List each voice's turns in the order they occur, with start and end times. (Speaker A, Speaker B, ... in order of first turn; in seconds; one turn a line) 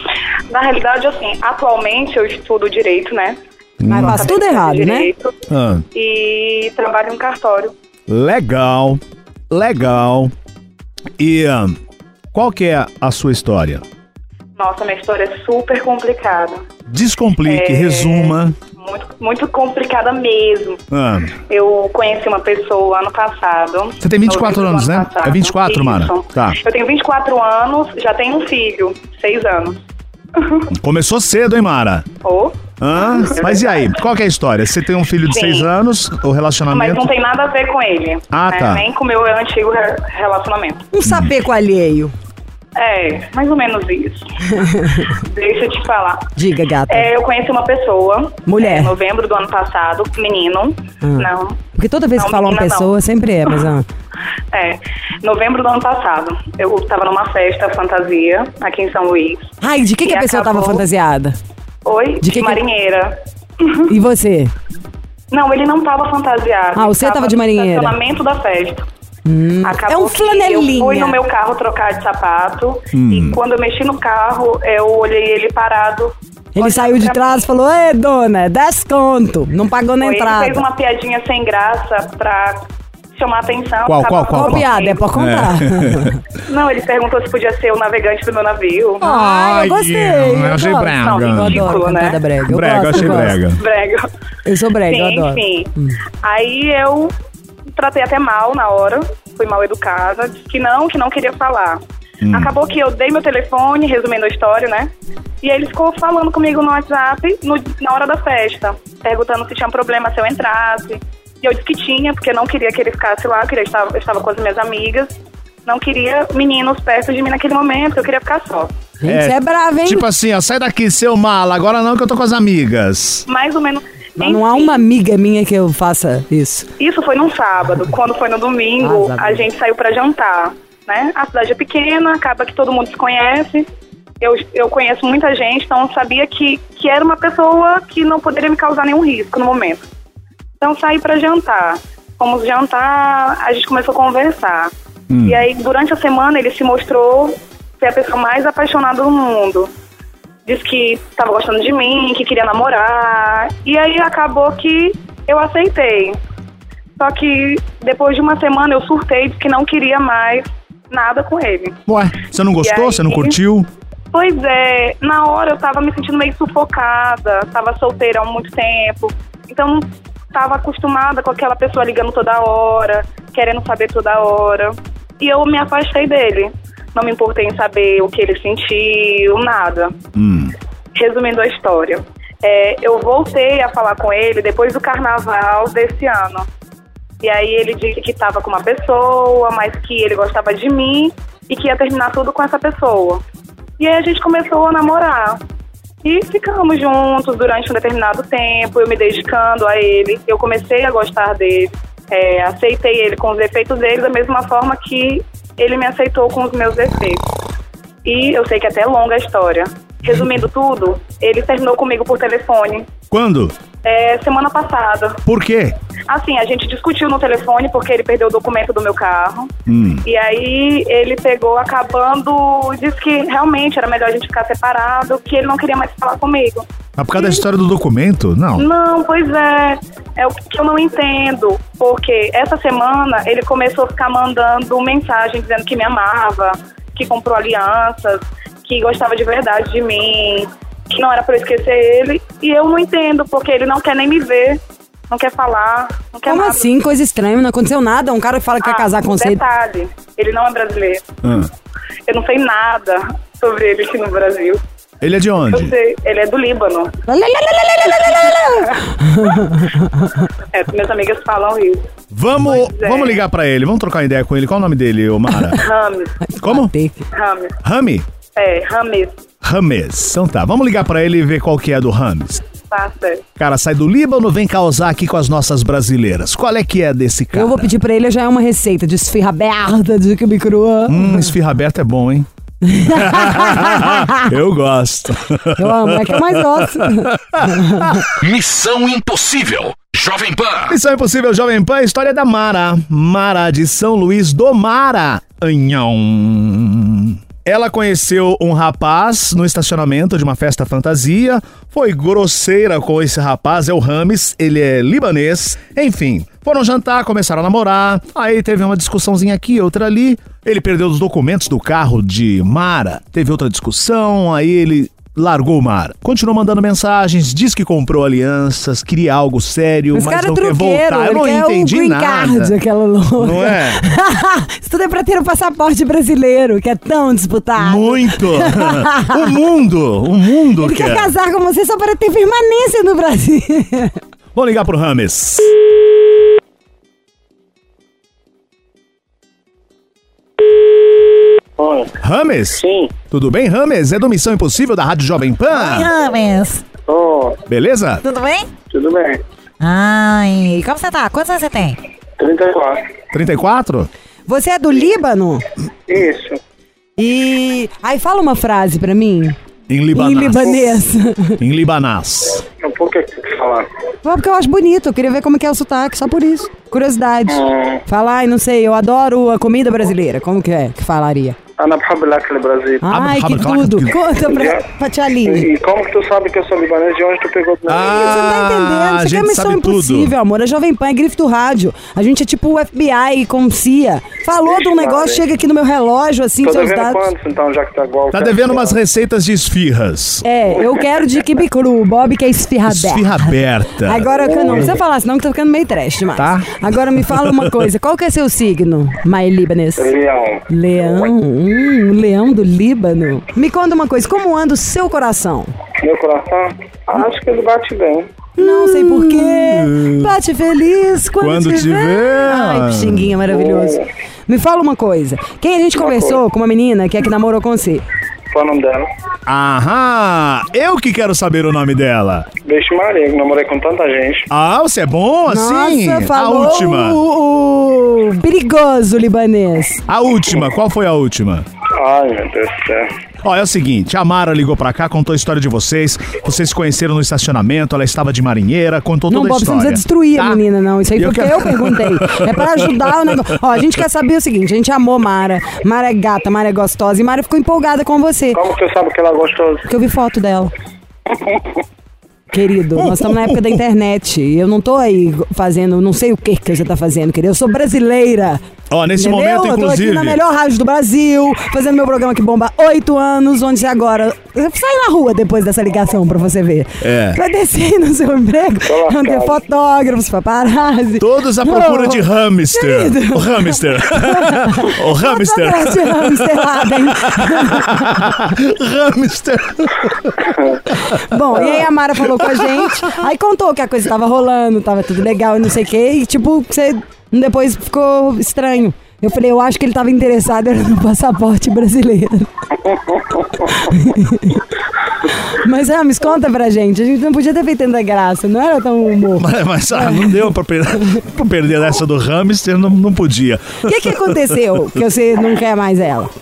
Speaker A: 0.5-3.4
Speaker B: 3.8-4.2
Speaker C: 3.9-5.1
Speaker A: 3.9-5.3
Speaker B: 5.5-5.8
Speaker A: 5.9-7.7
Speaker B: 8.1-10.3
Speaker B: 11.2-11.8
Speaker B: 12.3-13.8
Speaker A: 14.6-16.6
Speaker B: 16.9-18.6
Speaker A: 17.4-20.8
Speaker B: 20.9-21.4
Speaker A: 21.5-29.8
Speaker B: 24.0-26.6
Speaker A: 30.4-30.7
Speaker B: 30.7-32.1
Speaker A: 32.2-33.9
Speaker B: 32.8-37.0
Speaker A: 35.3-35.7
Speaker A: 36.7-40.8
Speaker B: 38.3-38.9
Speaker C: 40.9-42.1
Speaker A: 42.8-44.4
Speaker C: 44.7-45.0
Speaker A: 45.0-46.3
Speaker C: 46.4-47.1
Speaker A: 46.9-51.6
Speaker C: 48.5-48.9
Speaker C: 51.0-53.9
Speaker A: 52.2-52.9
Speaker A: 54.5-60.8
Speaker C: 59.6-61.4
Speaker A: 61.8-63.9
Speaker C: 62.2-62.6
Speaker C: 63.9-64.5
Speaker A: 65.3-68.8
Speaker C: 66.7-67.9
Speaker C: 69.2-71.2
Speaker A: 69.6-77.4
Speaker B: 72.9-73.4
Speaker C: 76.5-80.6
Speaker A: 80.0-85.0
Speaker B: 83.8-86.2
Speaker C: 84.3-86.2
Speaker A: 86.5-89.0
Speaker C: 89.0-93.4
Speaker B: 89.0-91.6
Speaker A: 91.0-92.2
Speaker B: 92.5-93.6
Speaker A: 93.0-94.1
Speaker C: 94.4-96.0
Speaker A: 94.9-97.1
Speaker A: 97.7-104.9
Speaker B: 102.2-102.5
Speaker A: 105.4-115.1
Speaker A: 115.7-118.7
Speaker C: 119.0-120.0
Speaker B: 119.1-123.2
Speaker A: 123.3-124.8
Speaker C: 124.2-126.7
Speaker A: 126.8-133.7
Speaker C: 128.8-129.4
Speaker A: 134.2-139.8
Speaker A: 140.6-144.7
Speaker B: 145.1-145.4
Speaker A: 145.2-149.7
Speaker A: 150.4-156.2
Speaker A: 157.0-161.8
Speaker B: 161.9-163.7
Speaker A: 162.6-163.4
Speaker A: 164.1-179.9
Speaker B: 180.1-180.5
Speaker A: 180.9-186.5
Speaker A: 187.2-193.2
Speaker A: 193.8-195.4
Speaker A: 196.0-207.2
Speaker A: 208.0-212.9
Speaker B: 213.1-213.5
Speaker A: 213.8-215.2
Speaker B: 215.2-215.7
Speaker A: 216.1-219.5
Speaker B: 219.7-220.0
Speaker A: 220.0-227.4
Speaker B: 227.0-228.7
Speaker A: 228.6-246.7
Speaker C: 246.3-249.4
Speaker A: 248.6-251.1
Speaker B: 251.2-251.5
Speaker A: 252.1-254.6
Speaker B: 255.0-255.7
Speaker A: 255.5-256.9
Speaker C: 257.1-260.2
Speaker A: 260.5-261.9
Speaker B: 262.1-265.6
Speaker A: 262.5-263.2
Speaker A: 265.6-266.1
Speaker C: 266.2-267.0
Speaker B: 266.4-266.7
Speaker A: 267.1-267.5
Speaker B: 267.6-268.1
Speaker A: 268.4-269.2
Speaker B: 269.4-272.4
Speaker A: 272.7-273.2
Speaker B: 273.4-277.7
Speaker C: 277.3-281.3
Speaker B: 280.9-282.3
Speaker C: 282.6-284.3
Speaker B: 282.9-288.1
Speaker C: 285.6-288.0
Speaker D: 288.2-290.8
Speaker B: 290.7-322.5
Speaker C: 319.9-329.3
Speaker B: 323.2-323.8
Speaker B: 327.6-331.1
Speaker C: 330.6-334.0
Speaker B: 334.3-335.5
Speaker E: 341.6-341.9
Speaker B: 342.0-345.9
Speaker E: 342.6-342.9
Speaker F: 345.5-346.6
Speaker E: 346.9-347.4
Speaker B: 347.5-348.0
Speaker F: 348.0-348.5
Speaker E: 348.7-349.2
Speaker F: 349.6-351.8
Speaker E: 352.2-352.8
Speaker B: 353.1-353.9
Speaker C: 354.3-355.4
Speaker E: 355.9-356.4
Speaker C: 357.0-359.4
Speaker B: 359.7-360.8
Speaker C: 359.9-361.4
Speaker B: 361.4-362.4
Speaker E: 362.6-363.7
Speaker C: 364.0-371.4
Speaker E: 367.3-367.8
Speaker E: 371.6-372.9
Speaker C: 372.8-375.5
Speaker B: 372.9-374.0
Speaker E: 374.3-374.6
Speaker E: 375.2-377.9
Speaker B: 377.7-380.1
Speaker C: 377.8-387.1
Speaker E: 384.4-385.2
Speaker E: 386.4-388.8
Speaker B: 388.1-390.2
Speaker C: 390.2-399.9
Speaker B: 392.6-394.7
Speaker E: 394.1-394.7
Speaker B: 396.1-397.5
Speaker E: 399.8-400.4
Speaker C: 400.5-405.5
Speaker E: 405.8-408.1
Speaker C: 408.4-417.8
Speaker B: 408.4-410.1
Speaker B: 411.2-413.2
Speaker E: 413.3-413.9
Speaker E: 415.8-416.2
Speaker E: 418.3-418.9
Speaker B: 419.2-422.3
Speaker E: 422.4-424.3
Speaker B: 424.3-427.0
Speaker C: 425.3-429.8
Speaker B: 429.9-431.4
Speaker E: 431.8-432.9
Speaker B: 433.2-440.4
Speaker C: 439.1-448.4
Speaker B: 440.9-442.7
Speaker E: 448.3-449.6
Speaker C: 449.7-450.5
Speaker E: 451.1-451.4
Speaker C: 452.3-458.4
Speaker B: 452.8-453.6
Speaker B: 458.7-460.2
Speaker C: 458.9-478.2
Speaker B: 466.8-467.2
Speaker E: 468.6-469.4
Speaker B: 471.0-481.6
Speaker C: 480.9-492.3
Speaker B: 482.1-482.6
Speaker C: 493.3-494.5
Speaker C: 495.1-500.1
Speaker B: 499.2-504.3
Speaker C: 503.6-506.1